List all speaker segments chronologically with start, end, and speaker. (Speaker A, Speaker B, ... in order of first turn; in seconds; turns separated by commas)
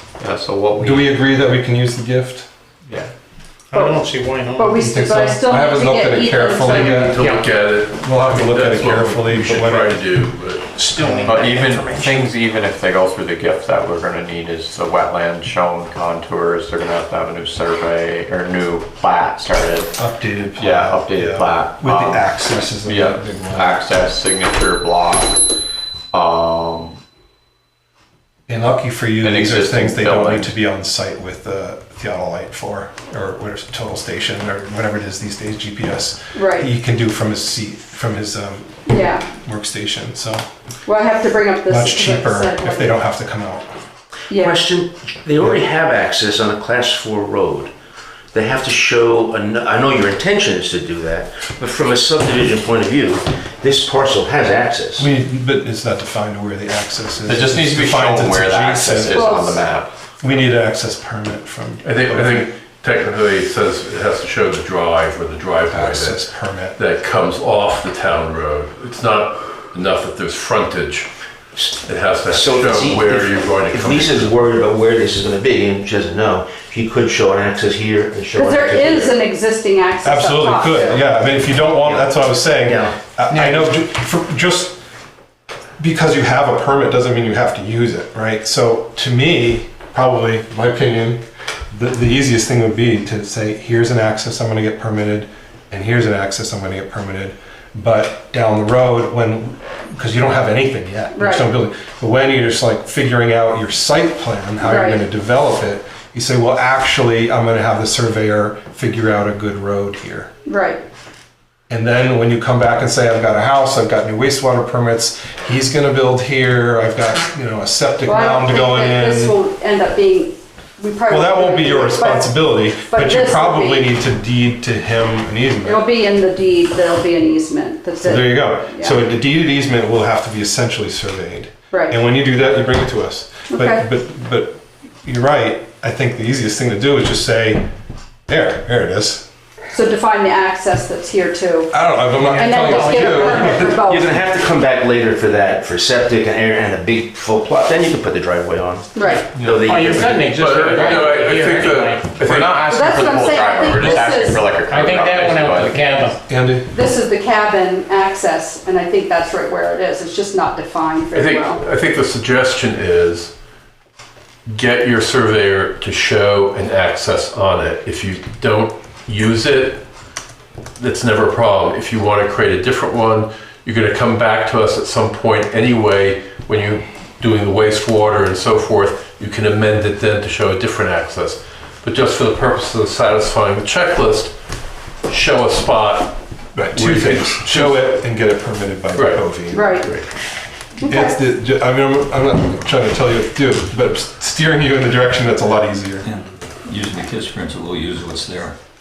Speaker A: 0.2-1.2, Speaker B: 0.8-2.5, Speaker C: 3.7-4.8, Speaker D: 3.7-7.2, Speaker B: 4.8-7.2, Speaker E: 6.6-10.9, Speaker C: 7.2-7.5, Speaker B: 8.0-10.1, Speaker C: 10.8-12.3, Speaker A: 11.2-19.9, Speaker B: 19.9-23.9, Speaker A: 20.6-25.4, Speaker A: 26.1-27.0, Speaker B: 28.5-40.4, Speaker A: 29.2-30.6, Speaker D: 36.3-36.7, Speaker D: 38.9-39.2, Speaker D: 40.9-43.0, Speaker B: 41.7-43.8, Speaker D: 44.3-44.6, Speaker F: 44.3-47.7, Speaker F: 48.3-55.1, Speaker B: 55.0-59.4, Speaker A: 57.3-59.9, Speaker D: 59.1-59.6, Speaker B: 60.2-62.5, Speaker E: 61.8-71.1, Speaker B: 65.7-66.8, Speaker E: 71.8-74.3, Speaker F: 72.3-79.2, Speaker D: 78.3-81.0, Speaker B: 80.0-84.8, Speaker F: 81.8-83.0, Speaker C: 83.3-83.6, Speaker B: 85.8-110.3, Speaker D: 101.1-101.5, Speaker D: 104.6-105.0, Speaker D: 110.5-110.8, Speaker B: 111.7-119.3, Speaker D: 118.0-123.9, Speaker B: 121.1-125.9, Speaker D: 125.6-129.0, Speaker B: 128.0-137.7, Speaker D: 131.7-132.0, Speaker D: 133.5-133.8, Speaker B: 138.3-139.2, Speaker D: 139.7-144.2, Speaker B: 141.7-143.7, Speaker C: 142.2-143.5, Speaker F: 143.4-150.3, Speaker D: 148.9-149.3, Speaker C: 149.6-152.2, Speaker E: 150.3-152.7, Speaker A: 152.2-156.2, Speaker D: 152.7-154.4, Speaker C: 154.6-156.2, Speaker B: 156.3-156.7, Speaker D: 156.7-161.6, Speaker E: 161.1-163.3, Speaker E: 164.5-169.8, Speaker E: 170.8-184.3, Speaker E: 185.1-188.0, Speaker B: 186.5-189.9, Speaker E: 188.9-190.1, Speaker D: 189.5-189.9, Speaker D: 190.8-191.2, Speaker B: 190.8-196.1, Speaker G: 196.0-198.6